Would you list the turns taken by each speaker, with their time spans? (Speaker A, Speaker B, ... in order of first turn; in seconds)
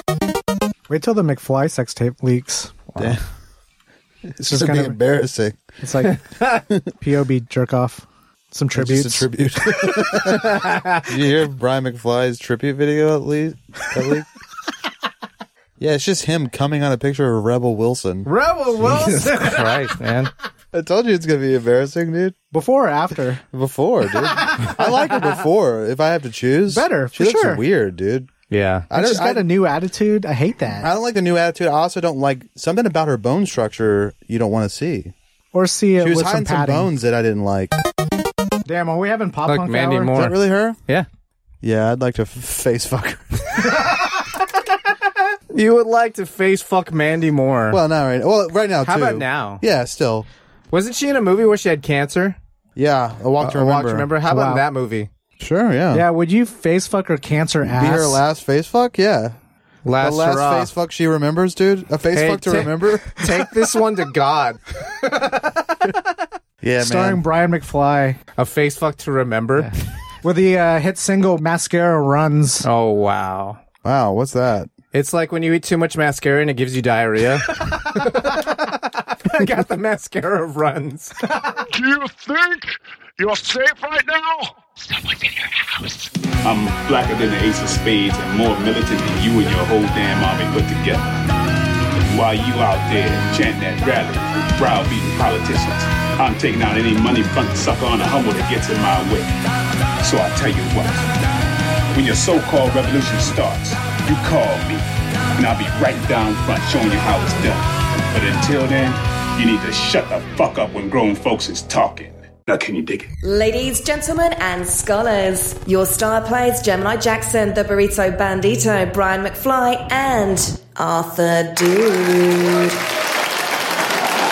Speaker A: 0.9-2.8, 4.4-5.0, 5.8-9.9, 18.3-19.9, 22.5-23.4, 26.7-27.6, 28.9-30.9, 35.5-36.9, 38.7-40.2, 54.2-54.6, 55.9-58.2, 66.8-68.2, 70.2-72.7
Speaker B: 2.9-3.2, 10.3-11.1, 18.8-20.3, 28.5-28.9, 39.5-41.1, 45.5-47.8, 48.8-49.6, 50.7-52.4, 53.4-55.1, 59.9-60.7, 62.1-64.6, 68.4-69.7, 72.6-73.6, 74.9-81.3
Speaker C: 4.4-5.6, 8.7-14.3, 15.8-18.3, 20.7-22.4, 23.5-28.3, 28.9-29.5, 30.8-35.1, 36.0-37.7, 40.1-40.8, 41.6-43.8, 47.7-50.3, 52.8-54.1, 55.4-56.1, 57.6-59.4, 60.0-63.2, 66.6-67.2, 73.8-74.7
Speaker D: 81.7-84.5
Speaker E: 86.4-91.1, 92.1-99.3, 100.0-101.1, 101.9-104.9, 105.4-113.1
Speaker F: 113.2-122.8